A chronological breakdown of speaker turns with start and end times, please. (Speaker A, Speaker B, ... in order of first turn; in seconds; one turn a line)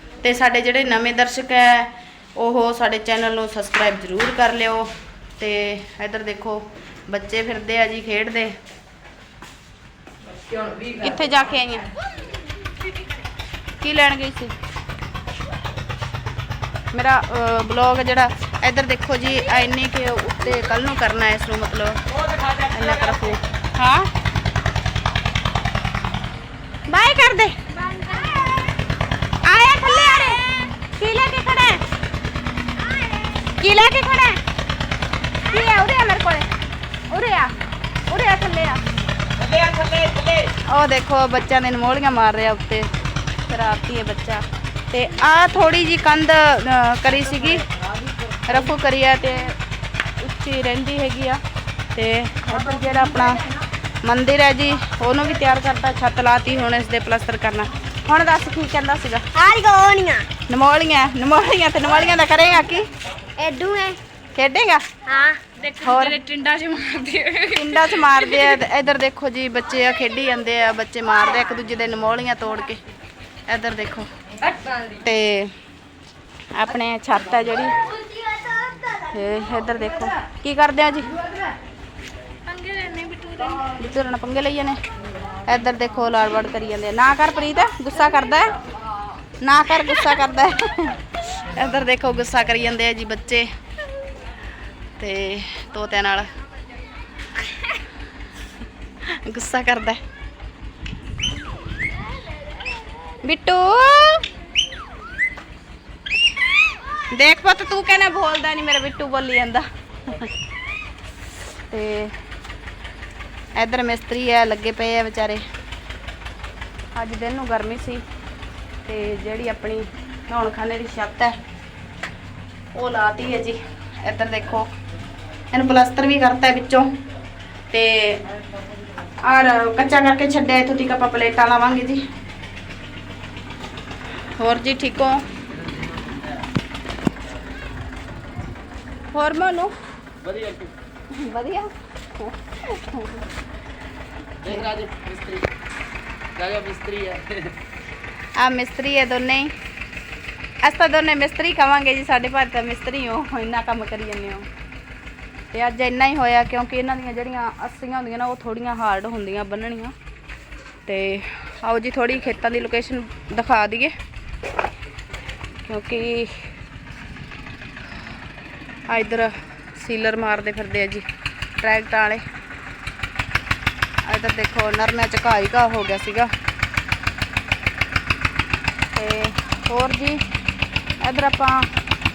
Speaker A: 0.2-8.6
Speaker A: 10.9-11.9
Speaker A: 13.8-14.6
Speaker A: 16.9-22.0
Speaker A: 22.5-24.1
Speaker A: 26.9-27.6
Speaker B: 27.7-28.8
Speaker A: 29.4-30.4
Speaker B: 30.1-30.6
Speaker A: 30.9-31.8
Speaker B: 32.7-33.5
Speaker A: 33.6-34.4
Speaker B: 35.5-35.8
Speaker A: 35.5-36.5
Speaker A: 37.1-37.5
Speaker A: 38.1-38.8
Speaker A: 40.5-42.9
Speaker A: 43.5-47.6
Speaker A: 48.5-49.6
Speaker A: 50.2-51.4
Speaker A: 51.9-53.4
Speaker A: 54.0-59.2
Speaker B: 59.3-60.3
Speaker A: 60.5-62.9
Speaker B: 63.4-64.0
Speaker A: 64.3-64.8
Speaker B: 65.0-65.4
Speaker A: 65.6-72.8
Speaker A: 73.5-74.1
Speaker A: 74.9-75.5
Speaker A: 76.5-77.8
Speaker B: 77.9-78.9
Speaker A: 79.0-81.1
Speaker B: 82.5-83.6
Speaker A: 83.6-84.8
Speaker A: 85.5-88.5
Speaker A: 89.4-93.5
Speaker A: 95.0-96.3
Speaker A: 99.0-100.0
Speaker A: 103.2-104.3
Speaker A: 107.1-110.3
Speaker A: 111.7-112.1
Speaker A: 113.5-115.4
Speaker A: 116.9-118.0
Speaker A: 118.8-121.4
Speaker A: 122.7-124.7
Speaker A: 125.5-126.9
Speaker A: 127.7-128.2
Speaker A: 129.2-132.0
Speaker A: 134.4-135.2
Speaker A: 139.1-139.7
Speaker C: 140.2-140.7
Speaker A: 141.1-143.2
Speaker A: 144.4-144.8
Speaker C: 144.7-145.4
Speaker C: 146.3-147.5
Speaker A: 148.4-149.5
Speaker A: 150.6-154.5
Speaker A: 155.5-159.9
Speaker A: 160.8-163.9
Speaker A: 165.6-166.4
Speaker A: 168.9-171.0
Speaker A: 171.6-172.2
Speaker A: 174.0-176.3
Speaker A: 178.9-180.2
Speaker A: 181.0-181.7